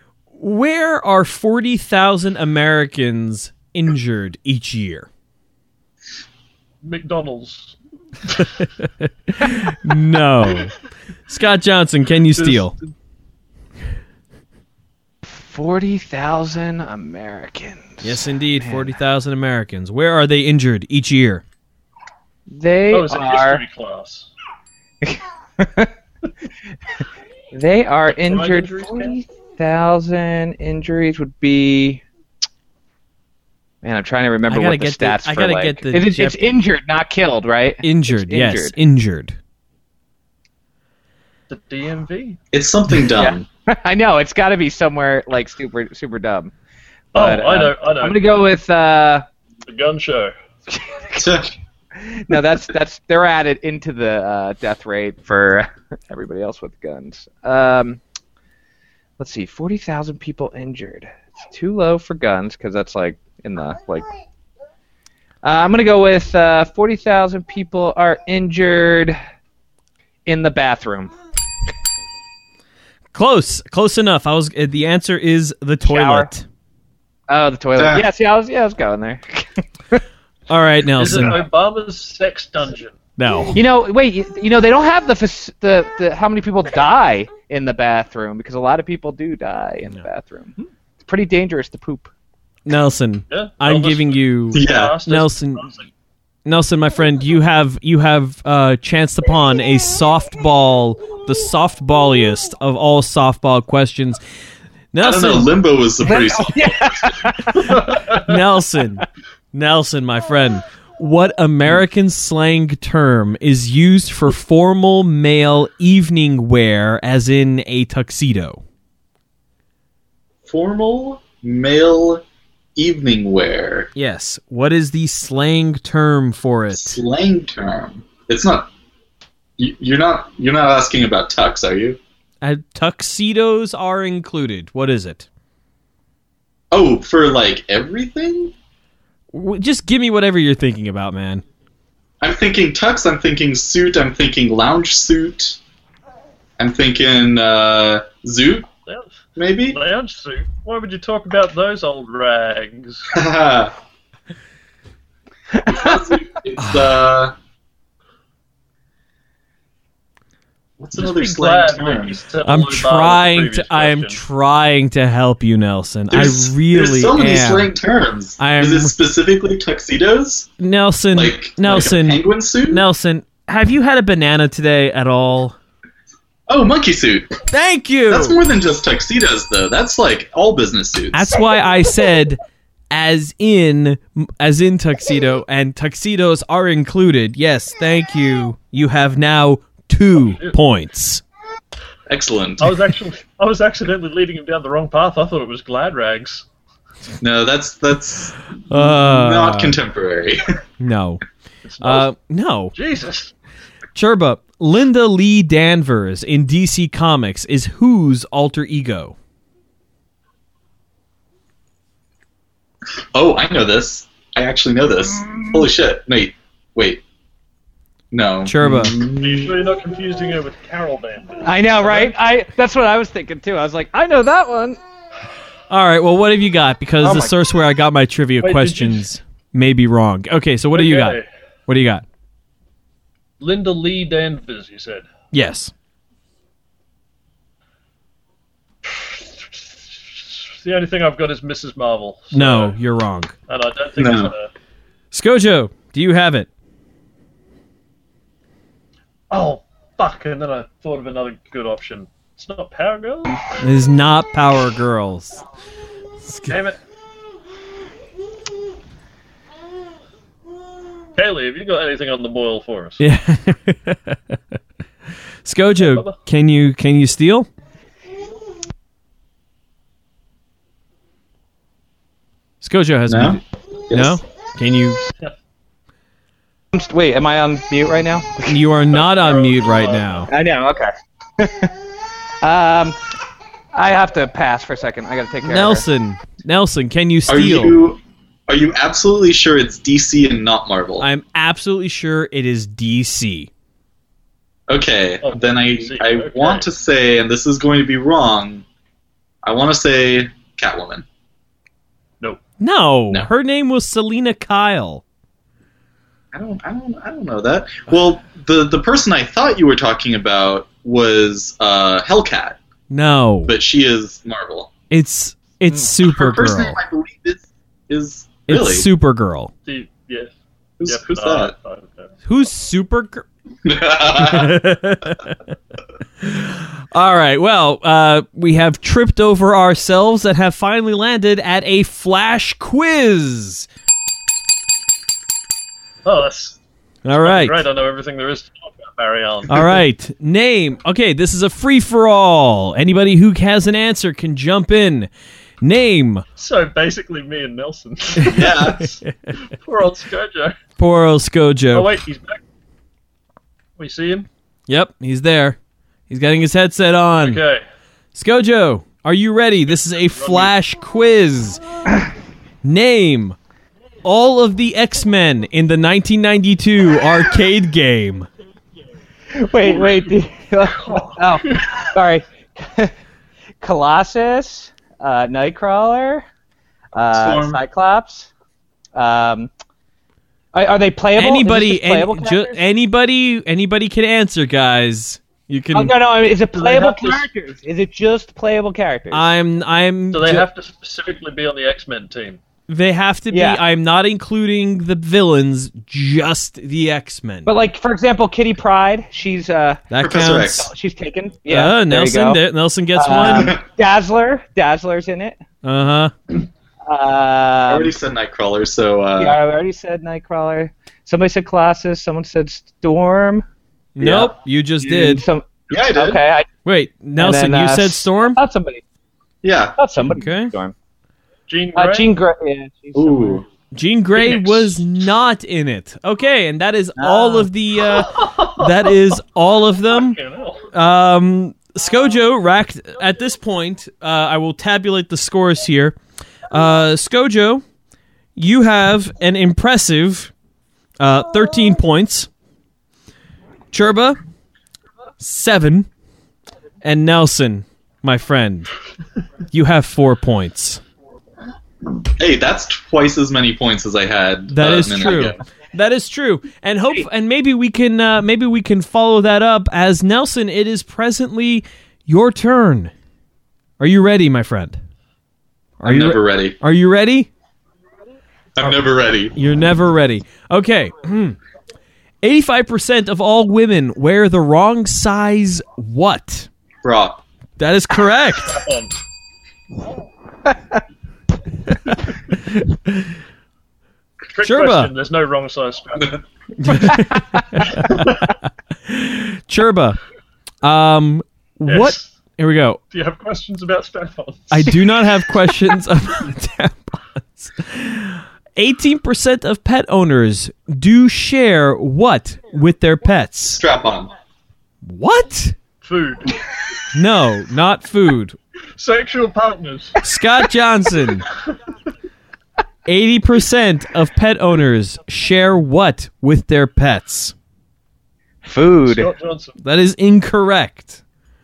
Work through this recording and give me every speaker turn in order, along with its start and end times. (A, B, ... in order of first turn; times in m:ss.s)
0:00.3-0:05.1 A
0:06.8-0:08.5 B
0:08.6-0:10.7 A
0:11.3-0:12.7 A
0:12.4-0:12.8 B
0:15.2-0:19.0 C
0:18.0-0:21.4 A
0:22.5-0:23.6 C
0:22.9-0:24.3 B
0:25.0-0:25.9 C
0:27.5-0:32.0 C
0:28.1-0:29.2 B
0:33.8-0:38.7 C
0:34.5-0:36.4 A
0:37.8-0:39.4 A
0:41.5-0:42.4 B
0:42.5-0:43.4 D
0:43.1-0:46.5 C
0:47.1-0:48.2 B
0:47.1-0:49.2 C
0:49.6-0:50.3 B
0:50.7-0:51.2 C
0:51.2-0:51.5 D
0:52.0-0:58.0 C
0:59.2-1:04.0 C
1:05.4-1:09.2 C
1:10.2-1:11.1 C
1:13.1-1:16.4 A
1:15.8-1:16.3 C
1:17.3-1:20.0 C
1:17.8-1:18.0 D
1:20.5-1:21.4 A
1:21.0-1:23.0 B
1:23.2-1:23.6 A
1:23.5-1:30.5 C
1:31.0-1:32.1 C
1:32.6-1:35.7 A
1:33.3-1:35.9 B
1:34.5-1:35.0 D
1:36.4-1:44.2 A
1:44.9-1:45.5 A
1:45.0-1:47.3 D
1:46.0-1:47.8 C
1:47.5-1:48.3 B
1:48.1-1:58.6 A
2:00.4-2:02.2 D
2:02.8-2:03.9 D
2:03.9-2:07.0 A
2:06.7-2:08.7 D
2:09.6-2:12.0 D
2:12.4-2:15.3 A
2:16.7-2:18.5 D
2:19.3-2:21.4 A
2:22.2-2:25.6 D
2:26.6-2:28.7 D
2:29.4-2:29.8 D
2:29.7-2:33.1 B
2:33.1-2:33.7 D
2:35.6-2:37.3 D
2:36.6-2:36.9 A
2:40.8-2:42.2 D
2:41.0-2:44.2 B
2:42.4-2:47.7 A
2:46.1-2:50.5 D
2:48.4-2:48.9 A
2:50.6-2:55.6 A
2:51.1-2:52.8 D
2:56.5-2:57.4 D
2:57.5-2:58.4 A
2:58.1-3:01.4 D
3:01.1-3:02.4 A
3:02.9-3:11.2 A
3:12.1-3:12.8 D
3:12.6-3:16.4 B
3:17.2-3:20.6 D
3:18.7-3:19.8 A
3:20.8-3:21.2 A
3:21.6-3:22.1 B
3:21.8-3:22.7 A
3:22.7-3:23.3 B
3:23.9-3:29.1 A
3:33.1-3:37.0 D
3:38.1-3:39.6 D
3:38.4-3:39.0 A
3:39.2-3:42.1 B
3:41.4-3:44.8 C
3:45.7-3:52.0 A
3:48.4-3:49.1 B
3:50.7-3:51.3 B
3:53.4-3:55.1 B
3:55.3-3:55.7 A
3:58.8-4:02.8 B
4:02.3-4:03.3 A
4:03.5-4:04.5 B
4:04.0-4:04.3 D
4:05.1-4:06.5 A
4:09.3-4:13.4 B
4:13.6-4:15.4 A
4:16.2-4:16.6 A
4:16.5-4:16.8 B
4:21.1-4:23.0 B
4:23.0-4:24.4 A
4:25.4-4:27.5 A
4:25.8-4:26.1 B
4:32.6-4:35.0 A
4:33.1-4:34.2 D
4:36.7-4:38.6 C
4:38.4-4:40.3 A
4:38.9-4:40.3 B
4:40.3-4:41.7 C
4:42.4-4:43.0 C
4:43.7-4:45.8 C
4:45.4-4:47.8 A
4:47.3-4:51.0 D
4:51.0-4:53.5 A
4:54.7-4:58.6 D
4:55.2-4:56.7 B
4:59.4-5:01.0 D
5:02.6-5:05.0 A
5:06.3-5:12.6 D
5:12.9-5:13.5 A
5:13.4-5:14.7 D
5:14.9-5:16.8 A
5:15.7-5:18.9 D
5:18.5-5:19.5 A
5:19.6-5:20.3 B
5:20.8-5:21.5 D
5:20.8-5:22.1 B
5:22.2-5:23.2 A
5:23.6-5:24.6 D
5:24.1-5:25.4 A
5:26.2-5:33.7 A
5:36.0-5:36.6 B
5:37.0-5:37.6 A
5:37.2-5:39.8 B
5:39.5-5:45.1 A
5:45.6-5:46.2 A
5:46.4-5:50.6 B
5:48.2-5:49.4 A
5:48.2-5:48.9 D
5:50.8-5:51.9 A
5:51.7-5:52.4 B
5:53.8-5:54.3 B
5:54.7-5:55.6 A
5:56.1-5:57.4 A
5:57.2-5:57.6 B
5:58.1-6:01.6 A
6:00.1-6:00.5 B
6:02.6-6:03.4 A
6:04.0-6:08.3 A
6:09.4-6:12.9 C
6:09.6-6:11.8 B
6:13.6-6:16.2 C
6:16.9-6:18.3 C
6:17.1-6:17.6 D
6:18.9-6:19.5 C
6:20.5-6:22.6 C
6:21.2-6:25.9 A
6:25.7-6:29.3 C
6:26.5-6:27.2 B
6:29.1-6:30.5 A
6:30.1-6:32.4 B
6:32.7-6:37.5 A
6:33.3-6:33.6 C
6:37.4-6:39.9 C
6:39.9-6:40.6 A
6:40.0-6:40.7 D
6:40.4-6:42.4 C
6:41.5-6:43.6 A
6:42.9-6:45.4 C
6:43.2-6:43.6 D
6:45.6-6:46.1 A
6:46.8-6:47.9 C
6:47.7-6:49.4 D
6:49.2-6:53.4 C
6:54.0-6:55.2 A
6:54.0-6:54.3 C
6:54.8-6:56.5 C
6:55.7-6:56.2 D
6:56.6-6:58.4 A
6:57.2-6:58.8 C
6:59.4-6:59.8 D
6:59.8-7:00.7 C
7:00.1-7:00.5 A
7:01.5-7:02.1 B
7:01.7-7:03.4 C
7:02.9-7:03.4 D
7:03.7-7:10.2 A
7:04.2-7:04.8 B
7:07.0-7:07.5 C
7:07.8-7:08.9 B
7:09.9-7:10.7 B
7:10.7-7:16.0 A
7:16.5-7:17.6 A
7:18.4-7:20.3 A
7:21.0-7:22.3 A
7:23.7-7:24.2 A
7:25.2-7:25.9 A
7:26.8-7:28.7 A
7:29.5-7:30.8 A
7:32.2-7:35.4 D
7:34.5-7:42.9 A
7:43.8-7:44.8 A
7:45.8-7:47.3 A
7:45.8-7:46.6 D
7:48.6-7:49.4 D
7:49.3-7:51.4 A
7:52.2-7:56.5 A
7:56.8-7:57.2 D
7:57.6-7:58.6 A
7:58.5-7:58.9 B
8:01.7-8:03.1 A
8:04.3-8:06.2 B
8:04.4-8:04.9 A
8:06.6-8:08.1 A
8:07.7-8:08.3 B
8:08.8-8:10.0 A
8:10.6-8:12.8 A
8:11.7-8:12.1 B
8:12.9-8:14.8 B
8:14.5-8:23.6 A
8:23.5-8:24.1 D
8:24.8-8:25.5 A
8:25.8-8:26.4 B
8:26.9-8:28.4 A
8:28.8-8:30.0 B
8:30.0-8:31.2 A
8:32.8-8:37.3 A
8:38.4-8:39.1 C
8:38.8-8:39.6 B
8:39.6-8:41.0 A